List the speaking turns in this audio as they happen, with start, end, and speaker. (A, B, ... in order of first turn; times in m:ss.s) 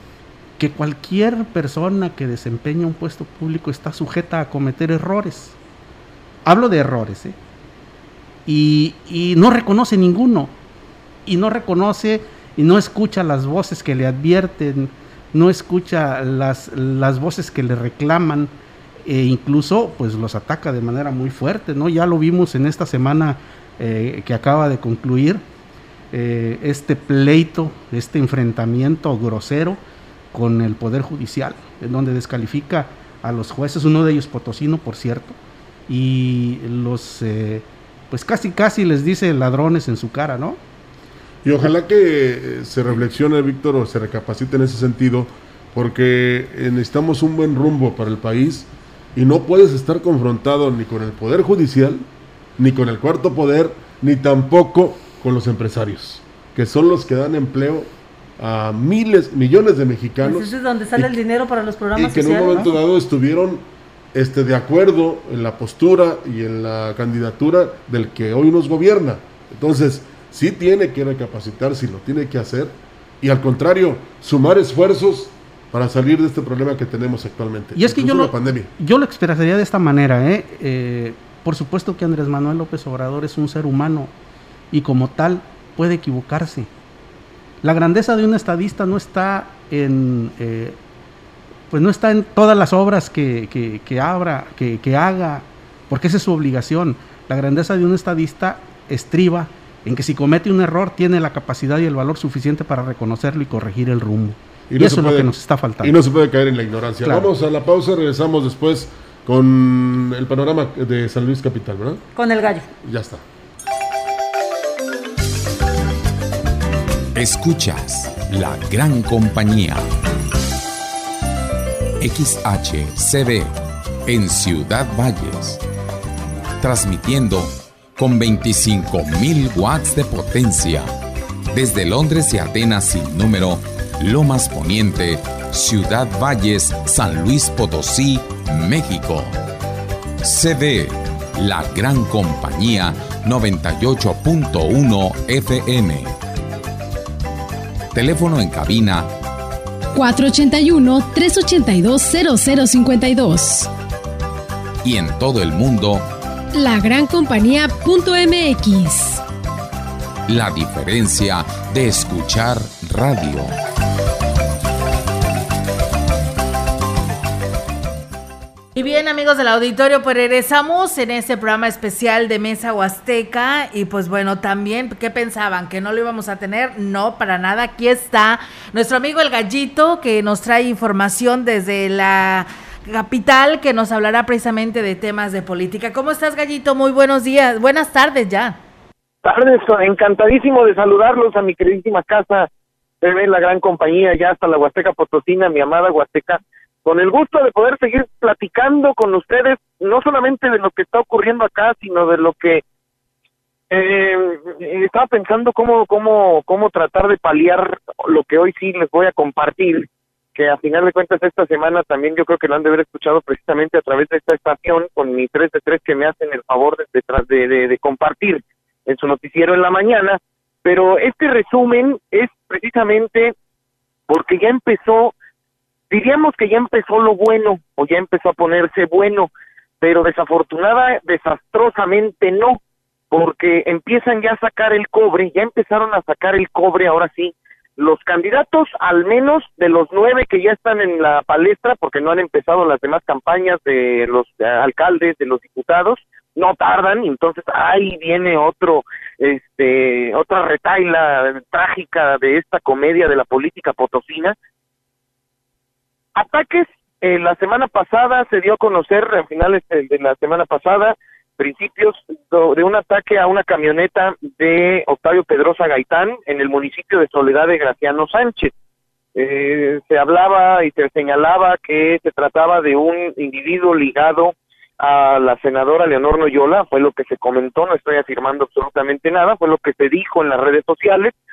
0:00.6-0:05.6 A
0:06.4-0:07.4 A
0:08.4-0:10.5 A
0:11.2-0:18.5 A
0:19.0-0:25.4 A
0:26.1-0:29.8 A
0:30.3-0:35.4 A
0:35.9-0:40.6 A
0:41.4-0:52.0 B
0:52.6-1:01.1 B
1:00.2-1:02.6 C
1:01.9-1:03.6 B
1:04.1-1:18.7 B
1:17.8-1:24.1 A
1:24.7-1:26.7 A
1:27.6-1:30.8 A
1:31.7-1:46.0 A
1:44.7-1:52.0 B
1:47.0-1:47.3 A
1:52.1-1:52.7 C
1:52.8-1:53.2 B
1:57.1-1:59.8 D
2:02.0-2:03.5 D
2:04.0-2:05.6 D
2:06.6-2:10.9 D
2:11.5-2:19.3 D
2:20.2-2:26.1 D
2:27.9-2:29.1 D
2:29.9-2:33.7 E
2:34.8-2:36.1 D
2:36.5-2:39.2 E
2:40.3-2:43.5 D
2:48.8-3:08.6 F
3:09.2-3:12.5 G
3:13.0-3:22.6 G
3:23.7-3:43.3 G
3:44.1-3:45.1 G
3:45.9-3:52.6 G
3:53.1-4:14.4 G
4:16.1-4:28.5 G
4:29.1-4:41.1 G